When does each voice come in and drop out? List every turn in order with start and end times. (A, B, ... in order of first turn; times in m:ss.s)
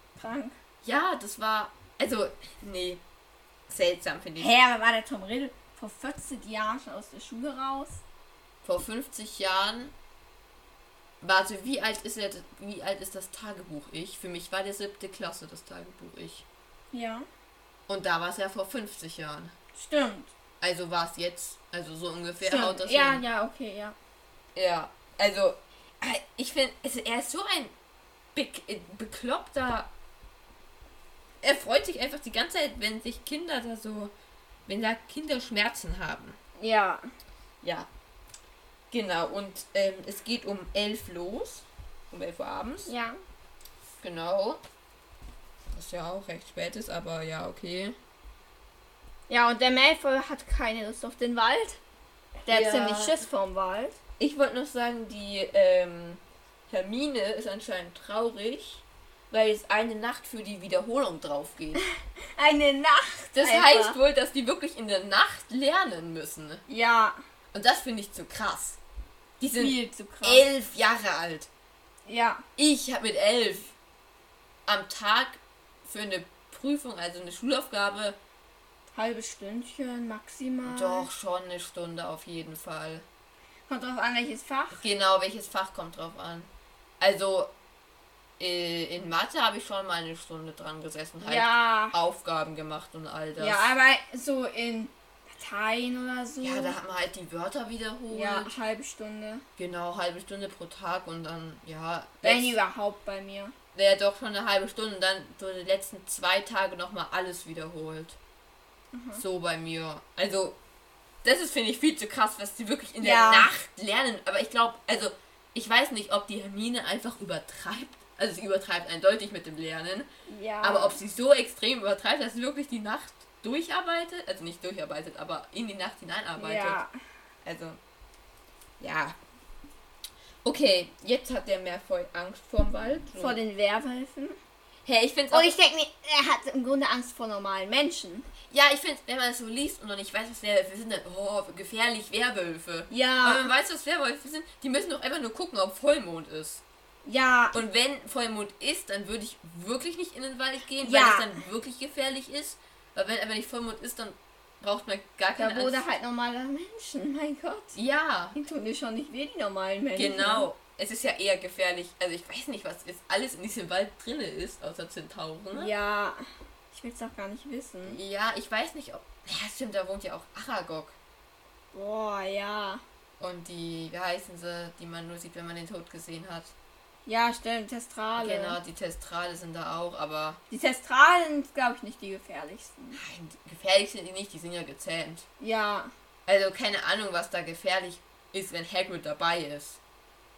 0:00.2-0:00.6 A
0:00.8-0:03.0 B
0:03.7-0:04.6 B
0:04.4-0:08.0 A
0:08.6-0:09.9 B
0:11.2-0:16.4 B
0:16.9-0:17.3 A
0:17.9-0:19.5 B
0:19.8-0:20.3 A
0:20.6-0:23.2 B
0:22.4-0:24.0 A
0:24.6-0:27.7 B
0:28.4-0:29.9 B
0:31.4-0:34.1 B
0:34.7-0:36.4 B
0:36.6-0:37.1 A
0:37.6-0:37.9 B
0:38.9-0:42.9 B
0:42.9-0:43.2 A
0:44.0-0:44.6 B
0:45.7-0:48.0 B
0:49.3-0:51.8 A
0:52.5-0:54.0 A
0:52.5-0:53.2 B
0:54.2-1:01.8 B
1:01.8-1:04.0 A
1:03.4-1:06.6 B
1:06.7-1:07.2 A
1:07.5-1:08.8 B
1:09.4-1:11.5 B
1:09.6-1:10.5 A
1:12.1-1:12.4 A
1:12.6-1:13.7 B
1:14.6-1:18.2 B
1:18.9-1:21.1 A
1:20.6-1:23.1 B
1:23.7-1:24.8 A
1:24.7-1:27.5 B
1:28.4-1:33.7 B
1:31.2-1:31.9 A
1:33.4-1:36.8 A
1:36.4-1:38.5 B
1:38.1-1:39.4 A
1:39.6-1:42.6 B
1:42.2-1:43.5 A
1:43.8-1:48.2 B
1:48.9-1:49.2 A
1:49.2-1:50.6 B
1:51.2-2:00.1 B
1:53.0-1:53.5 A
2:00.3-2:01.0 A
2:00.6-2:06.8 B
2:06.4-2:06.9 A
2:07.4-2:07.8 B
2:08.8-2:09.2 B
2:10.4-2:13.4 B
2:13.2-2:14.4 A
2:14.8-2:15.6 B
2:15.3-2:18.3 A
2:18.5-2:26.6 B
2:22.9-2:23.5 A
2:27.0-2:27.6 A
2:27.5-2:35.8 B
2:30.8-2:31.4 A
2:35.4-2:37.8 A
2:37.8-2:38.4 B
2:38.4-2:40.5 A
2:39.9-2:45.7 B
2:45.5-2:48.0 A
2:47.8-2:51.0 B
2:51.7-2:52.8 A
2:53.2-2:56.5 B
2:57.1-2:58.6 A
2:58.2-3:00.4 B
3:00.5-3:03.0 A
3:02.9-3:05.2 B
3:05.4-3:05.9 A
3:06.2-3:09.8 B